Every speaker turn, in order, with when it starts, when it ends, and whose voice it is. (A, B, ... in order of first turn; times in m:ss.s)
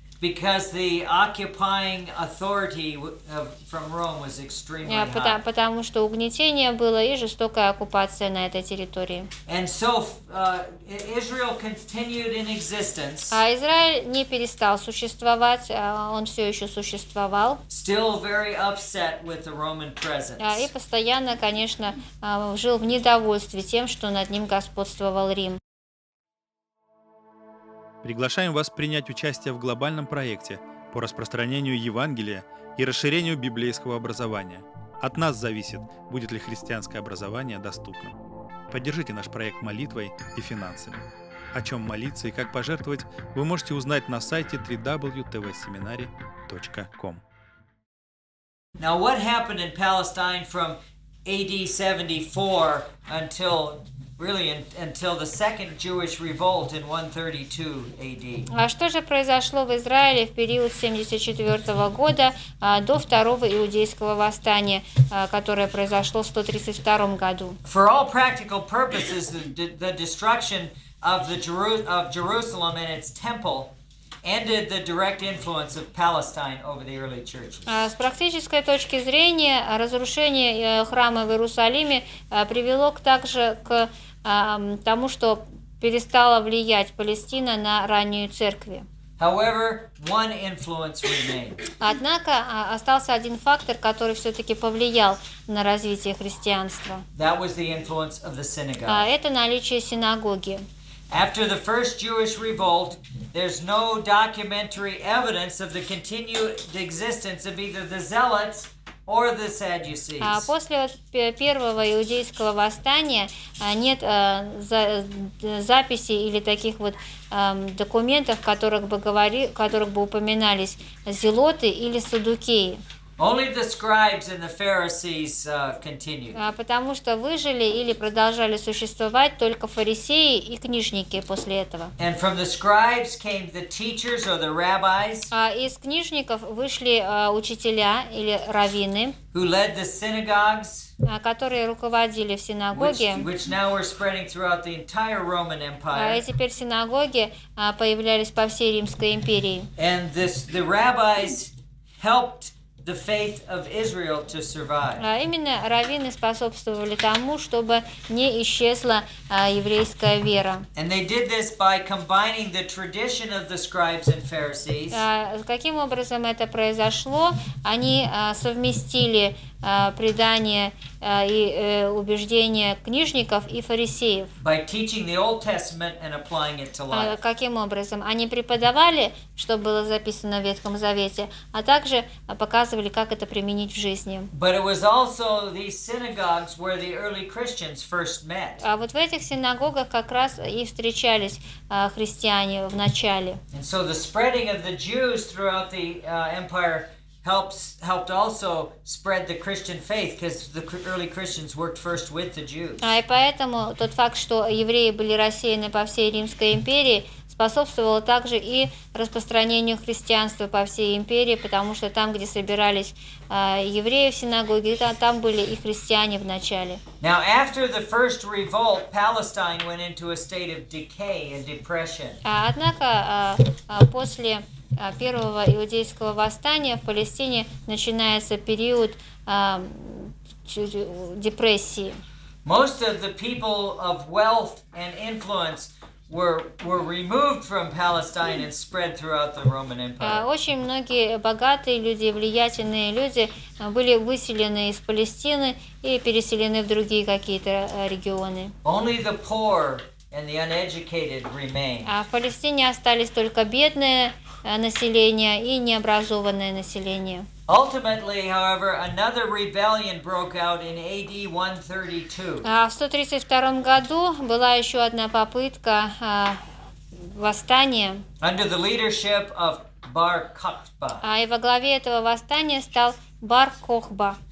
0:00.2-0:05.4 A
0:04.8-0:09.3 B
0:09.5-0:13.4 A
0:13.3-0:17.6 B
0:17.7-0:20.7 A
0:20.4-0:25.6 B
0:28.0-0:38.1 C
0:38.7-0:47.2 C
0:48.8-0:58.5 A
0:58.5-1:07.6 B
1:07.6-1:17.9 A
1:17.7-1:28.8 B
1:29.2-1:31.6 A
1:31.8-1:37.0 B
1:37.1-1:39.1 A
1:38.9-1:40.6 B
1:41.1-1:50.5 A
1:50.2-2:02.8 B
2:03.2-2:06.4 A
2:06.3-2:11.9 B
2:12.0-2:15.3 A
2:15.3-2:19.2 B
2:19.3-2:20.9 A
2:21.0-2:23.3 B
2:22.7-2:26.2 A
2:25.9-2:29.7 B
2:29.8-2:35.0 A
2:35.0-2:40.6 B
2:40.7-2:45.0 A
2:44.9-2:54.3 B
2:54.4-2:57.1 A
2:56.9-3:04.3 B
3:04.3-3:08.6 A
3:08.6-3:13.4 B
3:13.5-3:22.9 A
3:22.8-3:36.8 B
3:37.0-3:42.2 A
3:42.2-3:52.0 B
3:52.4-4:00.2 A
4:00.0-4:08.5 B
4:08.6-4:11.9 A
4:11.8-4:17.3 B
4:17.5-4:22.4 A
4:22.4-4:26.4 B
4:26.9-4:28.0 B
4:28.2-4:31.0 A
4:31.0-4:34.2 B